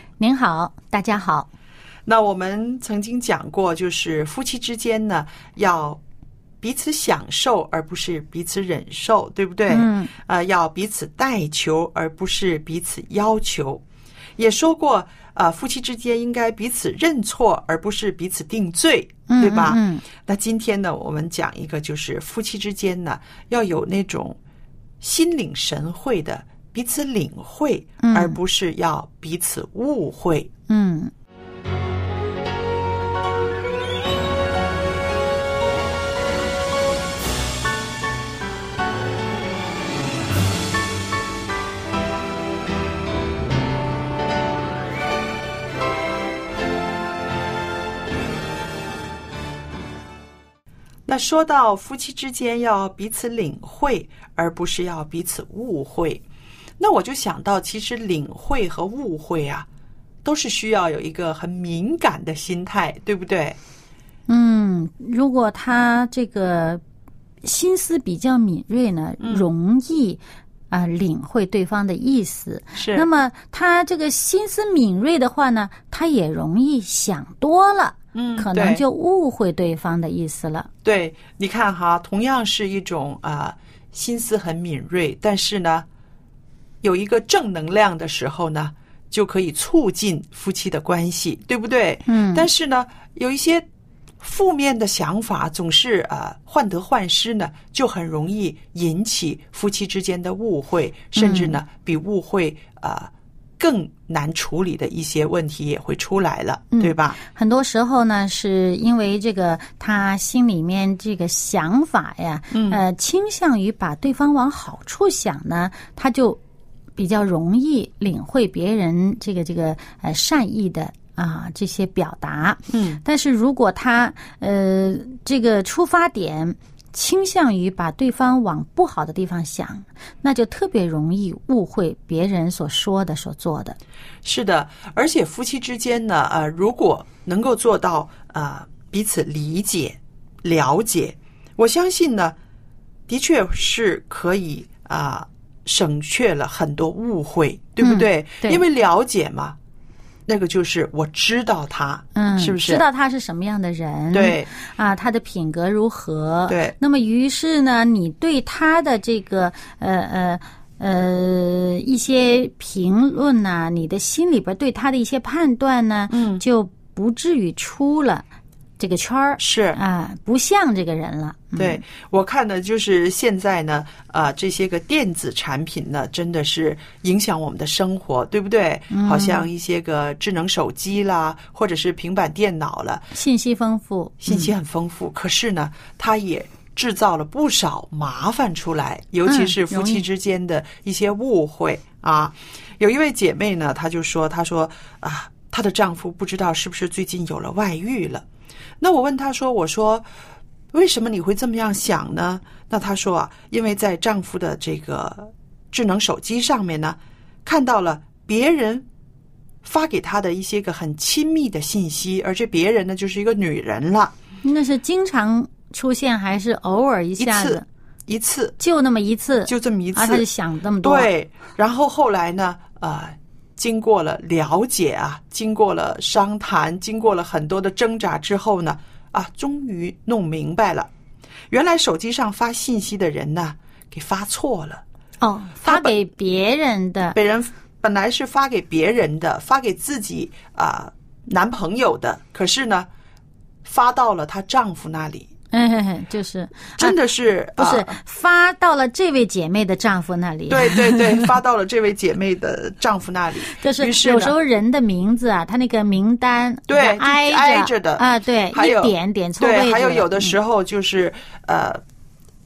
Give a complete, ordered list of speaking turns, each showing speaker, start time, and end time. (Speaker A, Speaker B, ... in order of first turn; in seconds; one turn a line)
Speaker A: 0.2-1.5
Speaker B: 2.1-6.0
Speaker B: 6.6-13.8
Speaker A: 9.7-10.1
Speaker B: 14.4-24.4
Speaker A: 19.3-20.1
Speaker B: 25.0-30.5
Speaker A: 28.0-28.4
Speaker A: 30.7-31.1
Speaker B: 51.1-56.2
Speaker B: 56.8-59.7
Speaker B: 60.2-63.6
Speaker A: 64.3-66.8
Speaker A: 67.4-80.7
Speaker B: 69.2-69.5
Speaker B: 72.8-73.1
Speaker B: 78.2-78.8
Speaker B: 80.8-85.9
Speaker B: 86.8-93.7
Speaker A: 92.1-92.5
Speaker B: 94.2-107.2
Speaker A: 101.2-101.6
Speaker A: 106.7-116.4
Speaker B: 112.5-112.8
Speaker A: 117.0-133.8
Speaker B: 122.7-123.0
Speaker B: 134.2-142.4
Speaker B: 143.1-149.6
Speaker A: 147.8-148.6
Speaker B: 150.3-152.8
Speaker A: 152.2-168.2
Speaker B: 154.1-154.5
Speaker B: 156.5-156.8
Speaker B: 166.1-166.4
Speaker A: 168.8-171.8
Speaker B: 169.4-169.8
Speaker B: 171.6-183.1
Speaker A: 178.9-179.4
Speaker A: 183.1-184.5
Speaker B: 184.2-198.2
Speaker A: 189.3-190.1
Speaker B: 198.8-200.1
Speaker B: 200.7-208.9
Speaker B: 209.6-214.2
Speaker A: 214.4-217.7
Speaker B: 217.2-218.6
Speaker A: 218.6-221.1
Speaker B: 219.5-220.2
Speaker B: 220.8-230.9
Speaker B: 231.5-234.8
Speaker A: 235.2-237.2
Speaker B: 235.6-236.0
Speaker B: 237.2-242.9
Speaker B: 243.6-245.3
Speaker A: 245.5-247.0
Speaker B: 246.8-248.0
Speaker A: 247.6-251.3
Speaker B: 250.5-254.4
Speaker A: 253.6-260.4
Speaker B: 256.7-261.8